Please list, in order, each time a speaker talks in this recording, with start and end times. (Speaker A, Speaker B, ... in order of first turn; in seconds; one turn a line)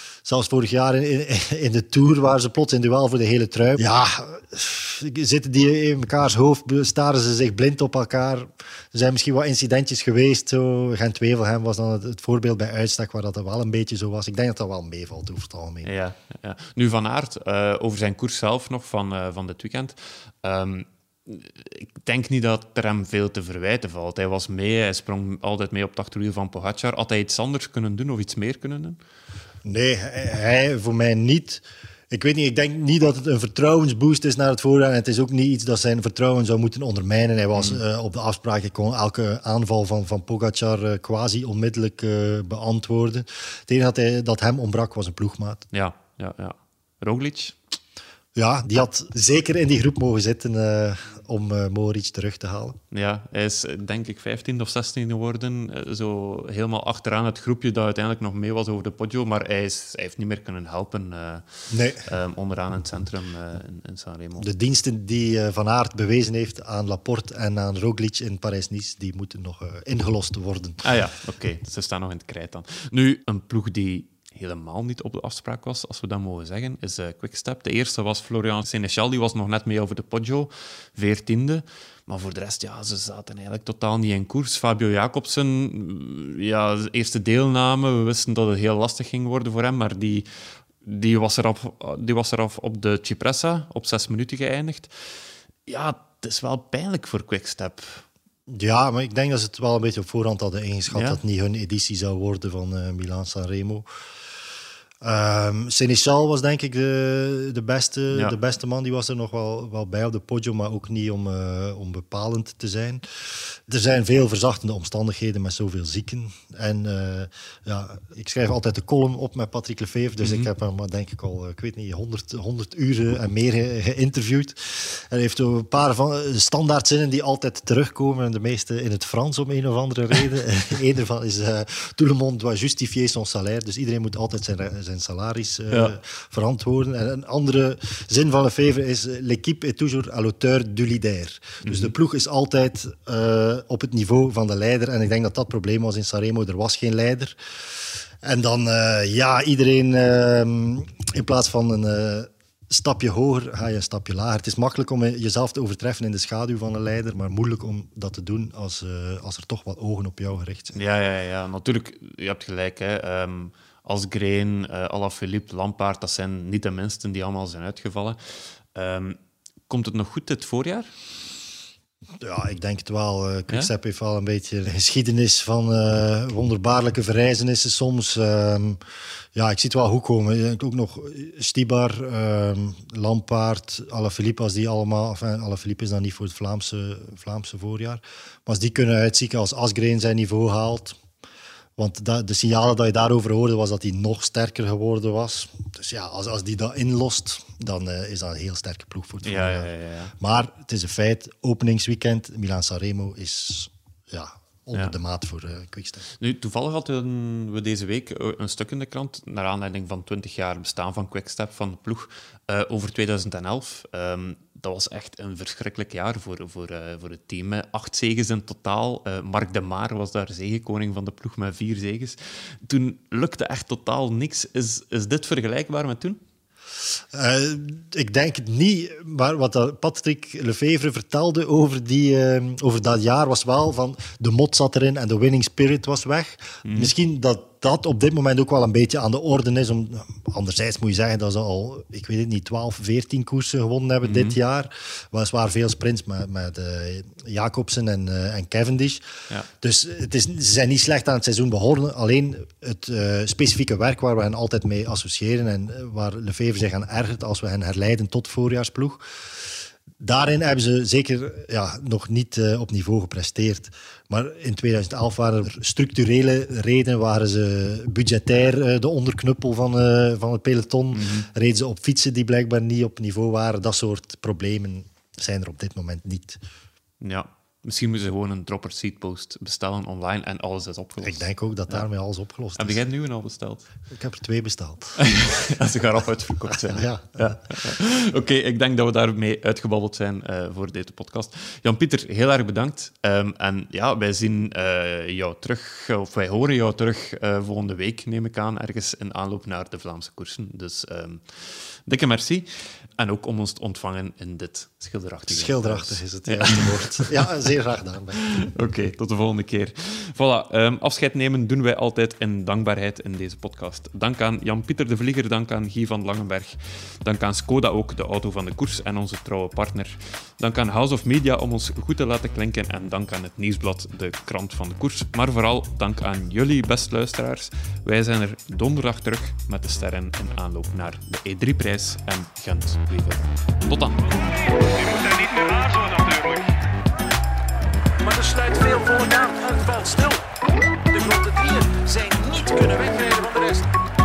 Speaker A: 0.2-15.9
Speaker B: 15.8-29.0
Speaker A: 29.6-45.6
Speaker B: 37.5-37.8
Speaker B: 45.7-47.6
Speaker A: 48.3-52.8
Speaker B: 52.9-64.5
Speaker A: 61.7-62.0
Speaker A: 64.4-70.8
Speaker B: 70.8-90.3
Speaker B: 90.8-94.9
Speaker B: 95.7-98.0
Speaker A: 98.5-103.8
Speaker B: 100.9-101.2
Speaker A: 105.0-147.4
Speaker B: 120.2-120.5
Speaker B: 135.7-135.9
Speaker B: 141.6-141.9
Speaker A: 148.2-160.8
Speaker B: 160.7-168.2
Speaker B: 168.7-169.2
Speaker B: 169.7-170.9
Speaker A: 172.2-178.8
Speaker A: 179.3-191.0
Speaker A: 191.8-206.1
Speaker B: 199.2-200.1
Speaker B: 206.2-226.2
Speaker A: 227.1-249.0
Speaker B: 236.6-236.9
Speaker B: 244.0-244.3
Speaker A: 249.6-259.0
Speaker A: 260.0-276.4
Speaker B: 270.9-271.3
Speaker B: 277.0-281.9
Speaker A: 281.0-282.8
Speaker B: 282.6-283.7
Speaker A: 283.9-285.0
Speaker B: 285.0-307.1
Speaker A: 286.5-287.4
Speaker A: 305.3-308.2
Speaker B: 308.3-334.0
Speaker C: 334.6-336.5
Speaker C: 338.0-340.2
Speaker C: 340.9-343.7